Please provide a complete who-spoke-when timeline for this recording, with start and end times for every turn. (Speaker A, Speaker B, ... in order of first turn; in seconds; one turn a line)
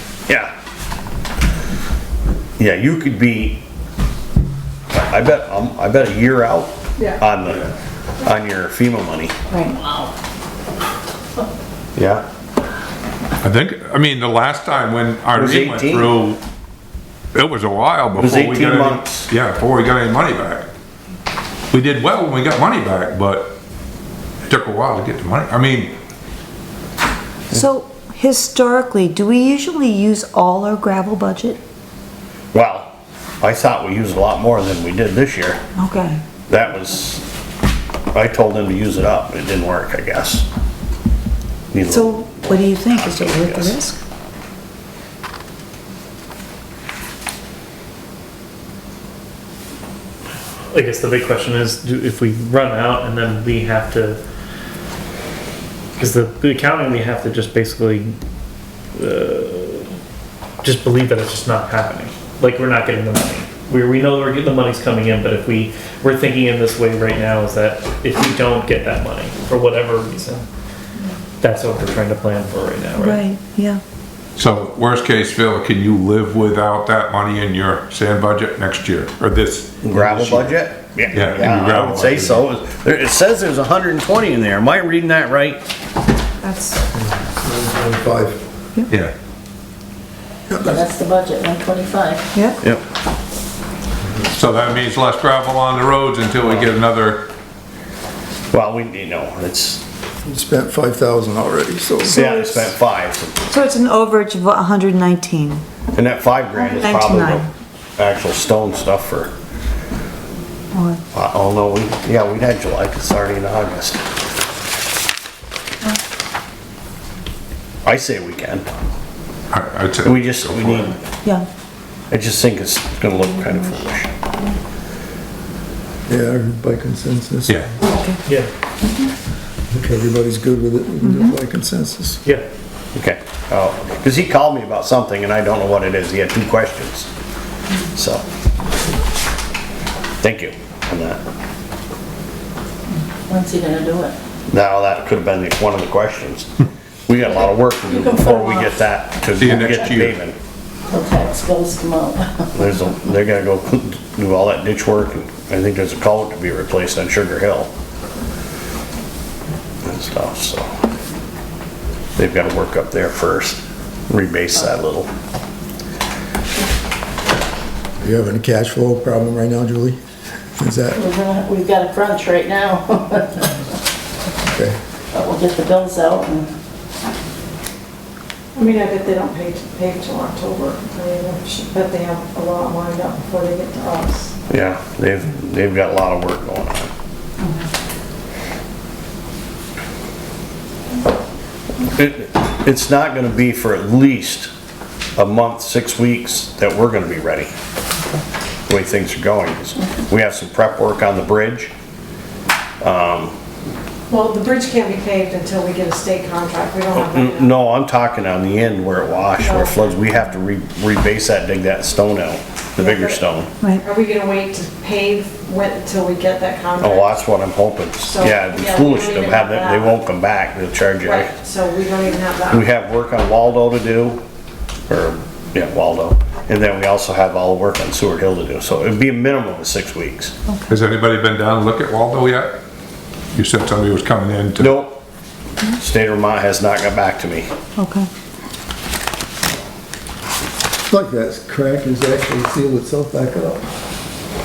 Speaker A: 2.6-3.6
Speaker A: 4.9-7.7
Speaker B: 7.0-7.2
Speaker A: 8.2-9.3
Speaker C: 9.5-9.8
Speaker D: 9.8-10.1
Speaker A: 12.0-12.2
Speaker E: 13.4-16.4
Speaker A: 15.3-16.1
Speaker E: 17.3-20.7
Speaker A: 18.2-19.3
Speaker E: 21.7-23.6
Speaker E: 24.5-26.0
Speaker C: 27.5-31.6
Speaker A: 32.5-35.6
Speaker C: 35.8-36.2
Speaker A: 36.5-37.2
Speaker A: 38.1-40.5
Speaker A: 41.7-43.8
Speaker C: 41.8-44.0
Speaker F: 50.7-54.2
Speaker F: 56.0-58.2
Speaker F: 59.0-59.9
Speaker F: 60.6-70.5
Speaker F: 71.4-73.2
Speaker C: 73.0-73.8
Speaker E: 74.4-82.5
Speaker A: 79.8-85.7
Speaker C: 86.4-86.8
Speaker G: 87.1-88.4
Speaker E: 88.9-89.1
Speaker G: 90.5-90.8
Speaker D: 90.6-92.3
Speaker C: 92.3-92.6
Speaker E: 94.3-97.3
Speaker A: 98.5-99.8
Speaker G: 100.2-102.4
Speaker A: 102.1-103.4
Speaker C: 102.2-102.7
Speaker C: 103.5-105.6
Speaker A: 105.9-109.3
Speaker C: 106.5-107.5
Speaker C: 110.7-111.0
Speaker A: 111.1-114.0
Speaker A: 117.8-118.7
Speaker E: 119.5-120.9
Speaker A: 120.0-121.0
Speaker A: 122.1-124.1
Speaker G: 126.1-127.7
Speaker C: 127.8-128.2
Speaker G: 129.7-132.2
Speaker C: 131.1-131.3
Speaker A: 132.9-137.1
Speaker A: 137.9-138.2
Speaker A: 140.2-141.2
Speaker D: 143.3-144.2
Speaker A: 144.5-146.5
Speaker A: 147.1-150.4
Speaker D: 147.9-148.8
Speaker E: 149.4-150.2
Speaker D: 150.9-152.6
Speaker A: 152.6-157.7
Speaker A: 159.8-160.7
Speaker A: 162.2-165.1
Speaker G: 168.0-170.0
Speaker G: 170.6-171.0
Speaker D: 170.9-173.6
Speaker G: 174.4-174.8
Speaker D: 175.1-176.5
Speaker B: 178.6-184.3
Speaker A: 184.5-186.9
Speaker A: 191.9-194.5
Speaker A: 195.2-197.5
Speaker A: 198.7-201.7
Speaker A: 202.8-203.3
Speaker B: 204.1-207.5
Speaker A: 206.9-213.5
Speaker B: 209.4-209.9
Speaker B: 212.8-213.2
Speaker B: 213.8-217.1
Speaker A: 216.8-221.4
Speaker B: 218.0-219.9
Speaker B: 221.0-222.7
Speaker A: 222.5-224.2
Speaker A: 224.9-230.3
Speaker C: 230.5-230.8
Speaker E: 230.7-232.6
Speaker E: 233.3-234.7
Speaker A: 234.6-235.0
Speaker A: 235.8-237.5
Speaker C: 237.8-238.1
Speaker G: 240.9-243.7